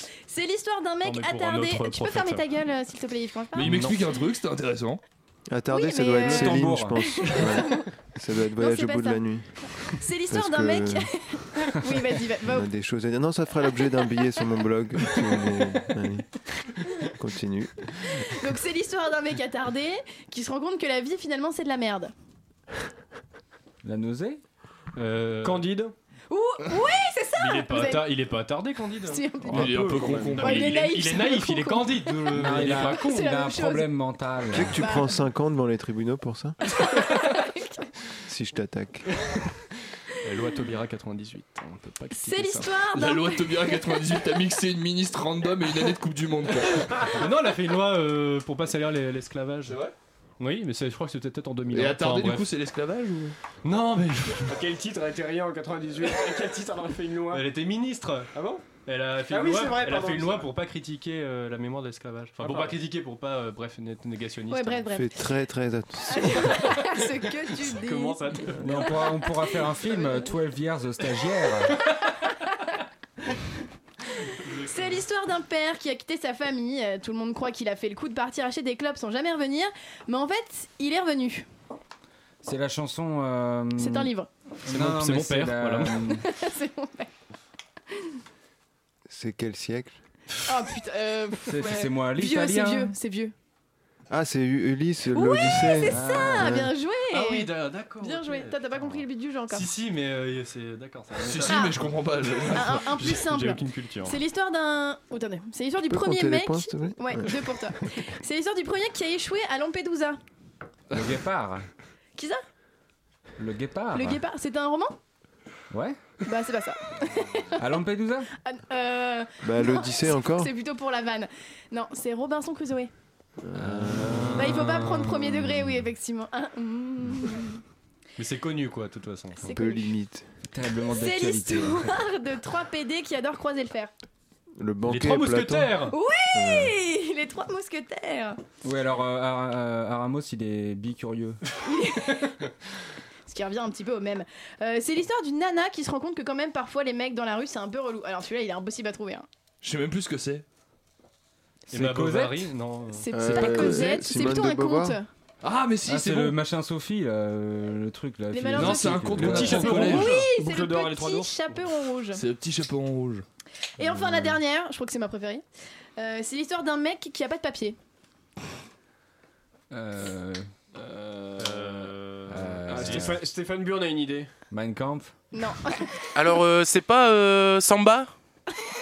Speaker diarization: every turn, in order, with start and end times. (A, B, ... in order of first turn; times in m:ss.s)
0:00.3-0:03.8 A
0:01.0-0:02.4 B
0:03.5-0:05.0 C
0:03.6-0:04.1 B
0:05.5-0:09.5 D
0:05.7-0:07.9 A
0:06.2-0:07.0 E
0:08.6-0:09.2 A
0:09.9-0:12.6 A
0:10.3-0:11.1 D
0:12.4-0:16.4 D
0:17.0-0:18.0 D
0:18.2-0:22.1 A
0:23.8-0:24.4 E
0:25.0-0:25.9 B
0:25.4-0:25.9 F
0:26.3-0:28.1 A
0:27.4-0:33.3 B
0:29.0-0:33.9 A
0:29.4-0:31.0 C
0:29.9-0:30.3 F
0:32.3-0:34.8 E
0:34.5-0:36.6 D
0:34.7-0:35.1 A
0:36.7-0:37.8 A
0:38.2-0:39.1 D
0:40.2-0:42.8 B
0:42.1-0:44.1 A
0:42.9-0:47.1 C
0:47.0-0:49.8 B
0:50.4-0:52.5 B
0:51.7-0:53.4 C
0:53.6-0:54.6 B
0:54.4-0:57.5 F
0:57.3-0:58.3 B
0:58.3-0:58.6 F
0:58.8-1:04.9 B
0:59.3-1:00.5 F
1:02.4-1:02.8 F
1:04.5-1:05.1 A
1:04.9-1:06.8 D
1:06.1-1:09.3 A
1:07.6-1:09.0 B
1:08.6-1:11.8 E
1:14.4-1:15.0 B
1:14.6-1:21.5 A
1:22.4-1:24.1 E
1:23.8-1:24.3 A
1:24.6-1:26.2 E
1:24.6-1:26.0 B
1:26.1-1:27.1 A
1:29.1-1:30.0 D
1:30.4-1:33.3 A
1:31.4-1:32.9 E
1:34.1-1:36.7 D
1:35.1-1:39.7 A
1:35.8-1:36.7 E
1:37.1-1:44.2 B
1:41.2-1:42.8 C
1:41.5-1:41.8 A
1:42.5-1:50.2 A
1:45.9-1:47.5 D
1:50.9-1:51.7 E
1:53.4-1:54.2 E
1:53.9-1:55.0 A
1:55.7-1:56.0 E
1:56.2-1:57.6 A
1:57.6-1:58.3 E
1:58.4-2:02.9 A
1:59.4-2:00.5 D
2:03.4-2:04.5 D
2:03.5-2:05.8 E
2:04.3-2:07.6 A
2:08.2-2:09.5 B
2:09.4-2:09.9 A
2:09.5-2:10.3 D
2:10.5-2:11.9 E
2:10.9-2:13.9 A
2:14.6-2:15.8 D
2:14.8-2:15.9 B
2:15.9-2:18.4 A
2:16.3-2:16.8 D
2:18.6-2:21.4 E
2:21.6-2:22.4 A
2:23.3-2:29.2 A
2:29.6-2:30.4 C
2:31.7-2:33.1 B
2:31.7-2:32.4 E
2:32.9-2:35.1 A
2:33.1-2:35.0 D
2:35.4-2:36.4 C
2:35.8-2:40.0 E
2:38.3-2:42.2 A
2:38.5-2:40.3 C
2:39.2-2:41.3 B
2:40.4-2:41.3 F
2:42.1-2:43.2 C
2:43.8-2:45.4 A
2:43.8-2:44.4 E
2:46.0-2:47.8 A
2:49.7-2:50.5 E
2:50.8-2:51.9 F
2:51.4-2:53.1 B
2:52.3-2:53.2 E
2:52.6-2:54.3 F
2:54.5-2:55.1 E
2:55.3-2:55.9 A
2:56.1-2:58.1 G